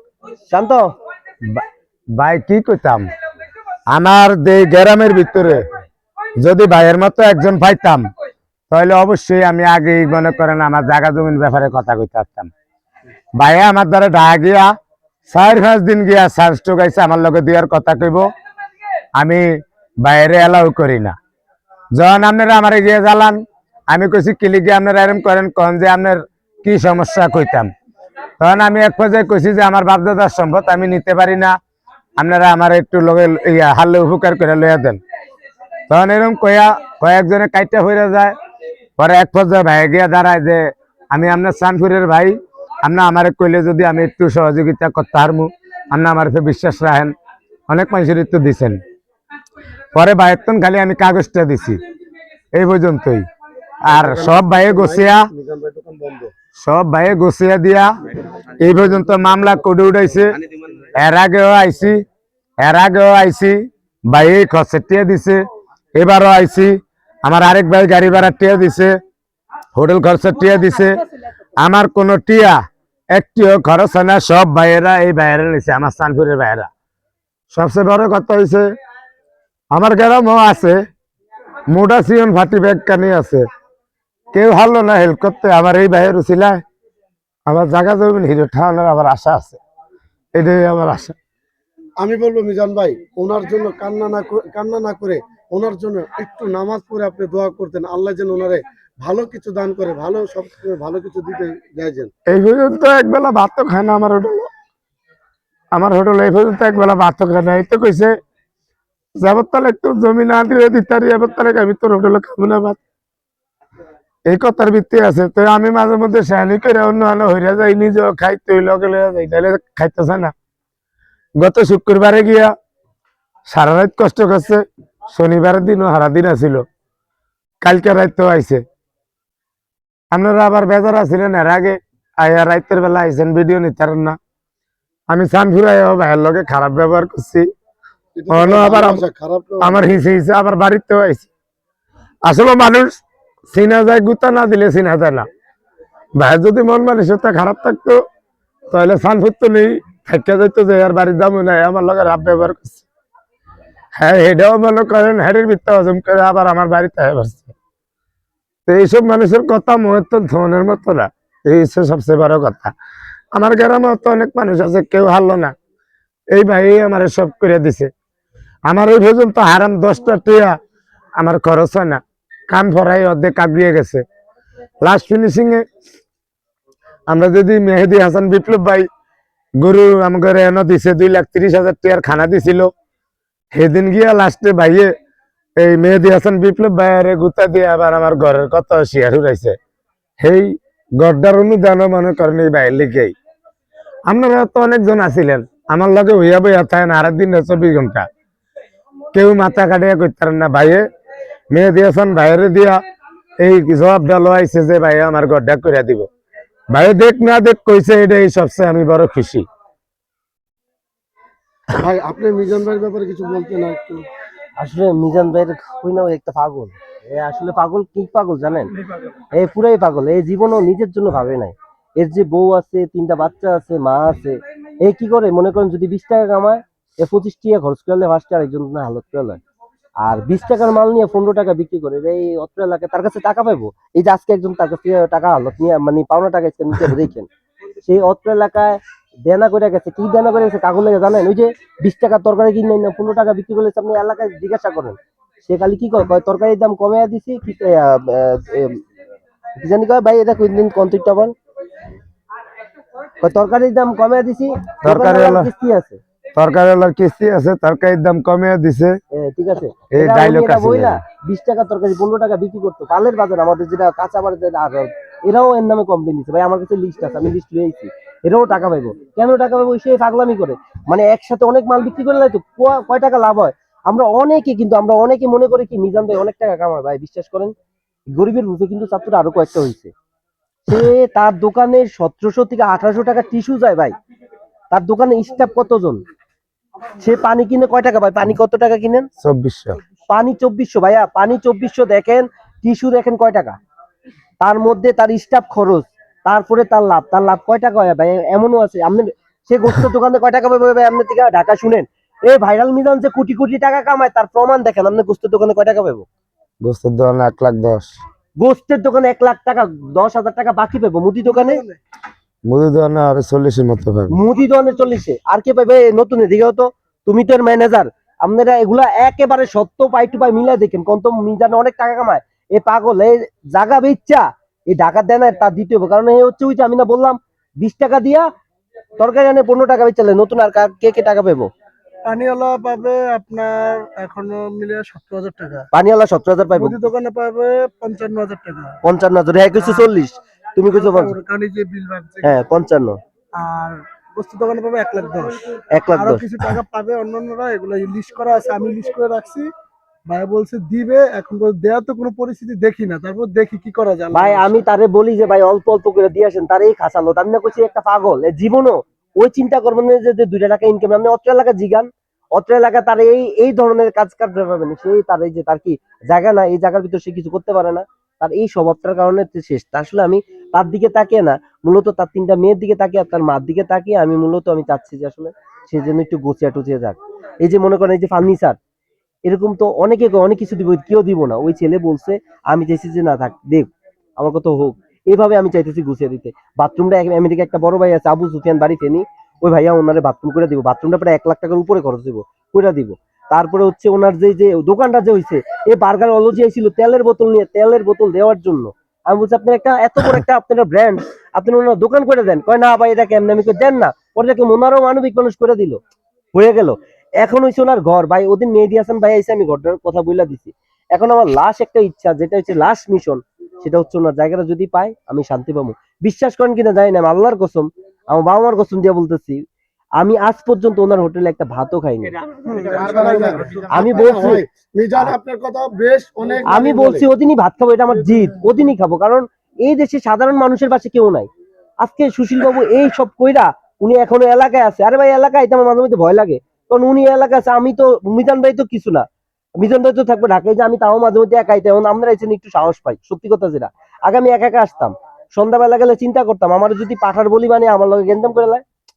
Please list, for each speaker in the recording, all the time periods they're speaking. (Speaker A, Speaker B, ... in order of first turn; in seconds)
Speaker A: 0.5-0.8, 214.6-218.7, 219.3-229.4, 230.0-237.3, 237.8-248.8, 249.6-251.3, 253.2-256.0, 259.1-277.5, 278.1-279.9, 280.7-283.9, 284.7-286.0, 287.0-289.1, 290.1-293.5, 294.4-306.1, 308.4-311.6, 314.1-328.2, 329.0-331.5, 335.7-336.8, 338.8-341.1, 342.2-343.0, 345.7-346.3, 354.1-378.6, 379.2-405.8, 406.3-419.4, 420.0-422.2, 423.7-424.4, 426.4-431.3, 431.8-439.0, 439.6-448.6
Speaker B: 2.2-3.0, 3.9-5.7, 6.4-8.0, 8.7-12.5, 13.4-14.7, 15.3-18.2, 19.2-19.5, 20.0-21.1, 21.9-27.7, 28.4-31.5, 32.2-35.0, 35.9-38.3, 39.0-47.1, 47.7-48.8, 49.9-51.8, 52.5-53.2, 53.8-55.2, 56.6-57.9, 58.6-60.4, 60.9-62.0, 62.6-65.4, 66.0-68.9, 69.7-71.0, 71.6-72.6, 73.1-76.7, 77.5-78.6, 79.7-80.8, 81.7-83.4, 84.3-86.6, 87.5-89.6, 90.3-91.1, 102.3-104.5, 105.7-108.1, 109.2-112.8, 114.3-120.3, 121.4-122.5, 123.5-126.6, 127.6-128.6, 130.1-134.2, 135.1-137.5, 138.3-139.0, 139.6-141.3, 142.2-145.2, 146.2-148.0, 148.7-152.8, 153.9-157.5, 158.7-162.7, 163.3-165.5, 166.3-167.9, 168.7-170.6, 171.2-174.0, 174.8-175.6, 177.1-178.9, 179.6-182.7, 183.5-184.9, 185.6-189.5, 190.2-193.1, 194.1-198.1, 199.1-200.8, 201.5-202.8, 203.4-206.1, 206.7-209.4, 254.8-255.5, 256.4-258.9, 259.9-261.0, 289.2-289.8, 306.6-307.9, 312.5-314.1
Speaker C: 53.9-56.3, 92.0-102.1, 138.1-139.8, 211.7-214.0, 422.7-427.1
Speaker D: 311.2-311.8, 332.1-335.6, 336.5-338.8, 339.6-339.9, 340.7-342.4, 343.4-349.5, 350.1-354.6, 422.4-423.6